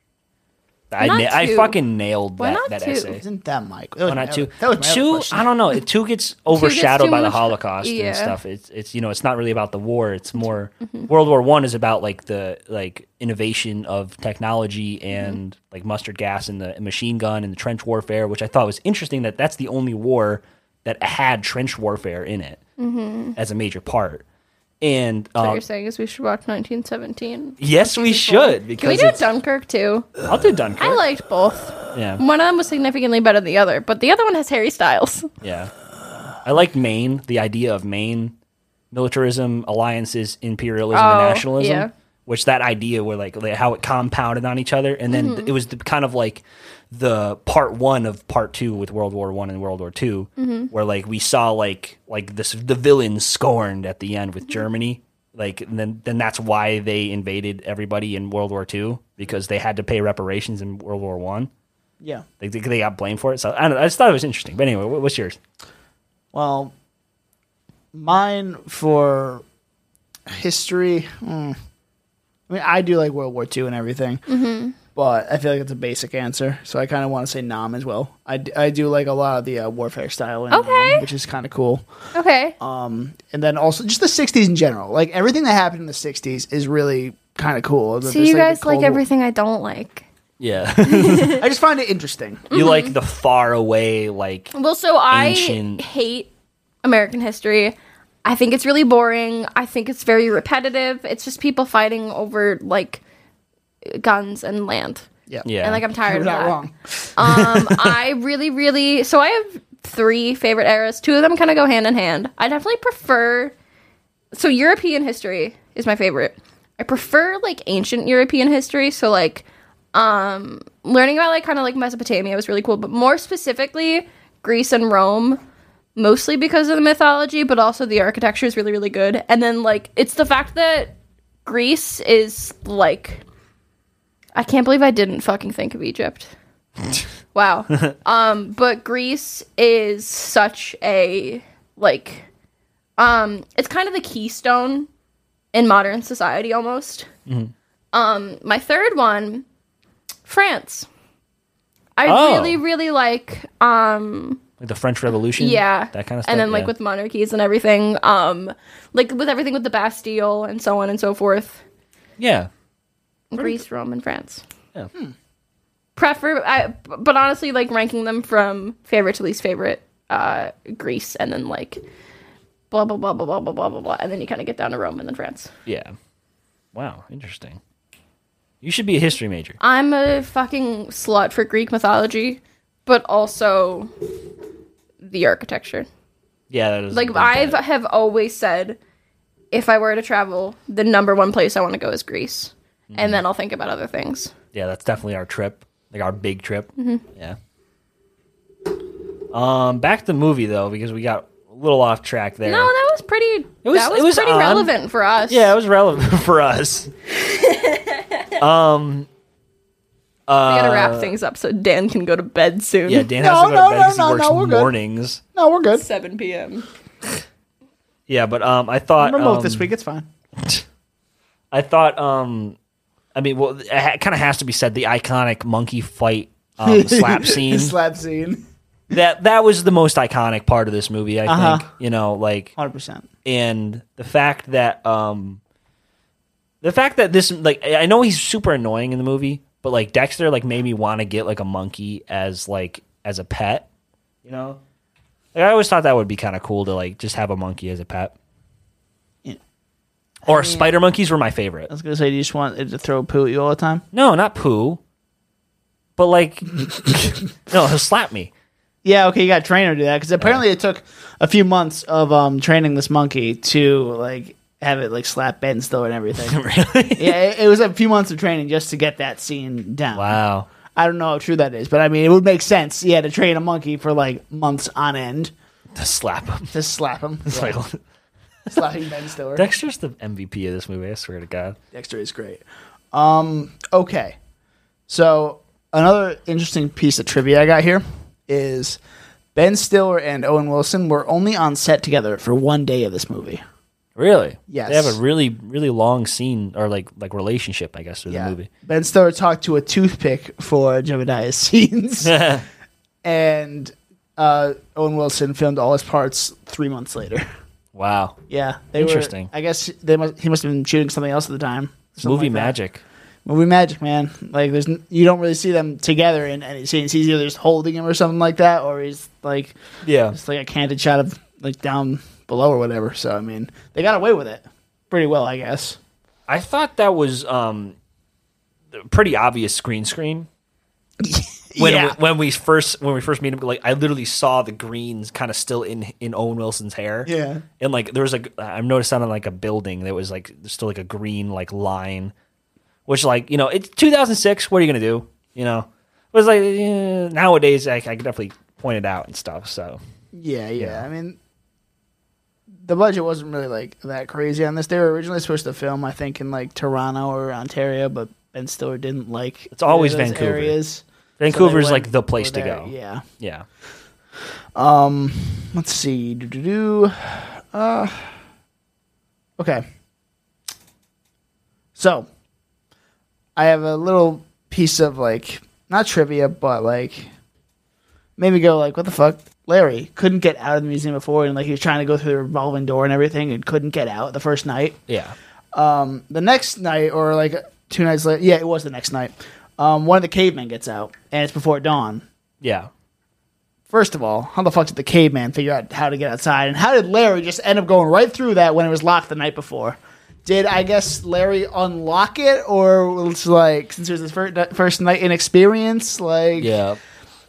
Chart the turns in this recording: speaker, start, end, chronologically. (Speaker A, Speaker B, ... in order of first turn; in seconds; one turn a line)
Speaker A: 0.9-3.2
Speaker B: 1.0-1.8
Speaker B: 2.4-3.2
Speaker C: 3.2-5.5
Speaker A: 4.1-22.6
Speaker B: 6.5-8.3
Speaker B: 15.1-15.4
Speaker B: 22.8-23.4
Speaker A: 23.4-24.2
Speaker A: 24.8-25.6
Speaker B: 25.4-30.2
Speaker A: 27.6-29.3
Speaker A: 30.2-31.0
Speaker B: 30.8-35.3
Speaker A: 31.9-32.2
Speaker A: 35.4-35.7
Speaker A: 36.4-38.3
Speaker A: 38.9-61.5
Speaker B: 40.9-41.9
Speaker B: 45.1-45.5
Speaker B: 50.4-50.7
Speaker C: 62.0-62.2
Speaker A: 62.4-65.4
Speaker C: 66.3-66.7
Speaker C: 67.9-69.4
Speaker C: 70.3-71.5
Speaker C: 72.5-74.2
Speaker B: 74.3-74.7
Speaker C: 75.0-81.8
Speaker B: 80.5-81.1
Speaker B: 82.1-82.5
Speaker C: 82.6-89.0
Speaker B: 88.0-90.0
Speaker A: 90.4-91.5
Speaker B: 90.8-91.4
Speaker C: 91.2-92.5
Speaker A: 92.5-94.5
Speaker B: 92.5-92.9
Speaker B: 94.5-96.3
Speaker A: 95.1-95.8
Speaker B: 96.8-103.0
Speaker B: 103.8-105.1
Speaker A: 105.4-105.8
Speaker B: 105.6-106.6
Speaker C: 106.0-107.1
Speaker B: 107.2-113.5
Speaker A: 107.2-107.9
Speaker B: 114.3-125.4
Speaker B: 126.0-133.2
Speaker B: 134.3-136.3
Speaker B: 137.3-142.3
Speaker B: 143.0-144.9
Speaker B: 145.5-147.1
Speaker A: 147.3-147.5
Speaker B: 147.9-149.4
Speaker B: 150.2-150.9
Speaker B: 152.0-154.4
Speaker A: 152.0-152.6
Speaker A: 154.6-156.7
Speaker B: 155.4-161.6
Speaker A: 162.2-162.5
Speaker B: 163.3-164.4
Speaker B: 165.9-171.8
Speaker B: 172.7-175.5
Speaker A: 175.7-175.9
Speaker A: 176.7-177.6
Speaker A: 178.6-179.6
Speaker B: 179.6-183.9
Speaker B: 185.0-185.9
Speaker A: 186.5-187.6
Speaker B: 186.9-188.8
Speaker B: 189.5-194.3
Speaker A: 192.9-193.2
Speaker A: 194.5-197.4
Speaker B: 196.8-197.0
Speaker A: 199.3-202.7
Speaker B: 202.4-205.5
Speaker A: 203.6-204.7
Speaker A: 205.3-206.9
Speaker B: 207.3-208.2
Speaker A: 208.4-209.1
Speaker A: 210.3-211.1
Speaker B: 210.4-213.1
Speaker A: 212.8-215.2
Speaker C: 213.2-214.7
Speaker C: 215.3-215.8
Speaker B: 215.7-216.7
Speaker A: 218.1-219.7
Speaker C: 219.0-220.1
Speaker A: 220.4-220.6
Speaker A: 221.5-222.6
Speaker A: 223.1-227.7
Speaker C: 226.6-228.4
Speaker A: 228.9-232.5
Speaker C: 231.3-231.7
Speaker C: 232.6-233.1
Speaker A: 233.2-235.4
Speaker A: 236.6-243.7
Speaker A: 244.2-244.6
Speaker A: 245.3-248.1
Speaker A: 250.2-251.7
Speaker C: 250.3-250.6
Speaker C: 251.7-253.8
Speaker A: 253.9-254.8
Speaker A: 256.0-258.3
Speaker C: 258.8-266.4
Speaker A: 266.2-267.2
Speaker C: 266.9-270.2
Speaker A: 269.9-270.5
Speaker C: 270.7-275.3
Speaker A: 275.8-276.5
Speaker C: 276.5-277.6
Speaker A: 277.3-277.8
Speaker C: 278.5-279.5
Speaker A: 279.4-281.6
Speaker C: 281.7-284.2
Speaker C: 284.9-288.8
Speaker C: 289.3-293.4
Speaker A: 293.9-298.5
Speaker C: 294.5-295.0
Speaker C: 298.1-302.1
Speaker A: 302.0-302.4
Speaker C: 303.0-307.2
Speaker A: 307.7-308.1
Speaker C: 308.3-312.6
Speaker A: 308.8-309.3
Speaker A: 312.0-312.8
Speaker C: 313.2-319.6
Speaker A: 319.8-320.1
Speaker C: 320.1-325.8
Speaker A: 326.3-327.7
Speaker A: 328.7-330.3
Speaker C: 331.0-332.0
Speaker A: 331.6-342.1
Speaker C: 337.1-337.4
Speaker A: 342.9-349.8
Speaker C: 350.1-351.2
Speaker A: 350.6-350.8
Speaker C: 352.6-363.0
Speaker A: 359.5-360.6
Speaker A: 361.2-363.4
Speaker C: 364.6-368.1
Speaker C: 369.4-369.6
Speaker C: 371.7-372.1
Speaker C: 373.4-377.1
Speaker C: 378.2-384.8
Speaker A: 384.9-385.1
Speaker C: 385.5-392.1
Speaker A: 392.4-392.7
Speaker C: 393.7-406.5
Speaker A: 406.4-406.8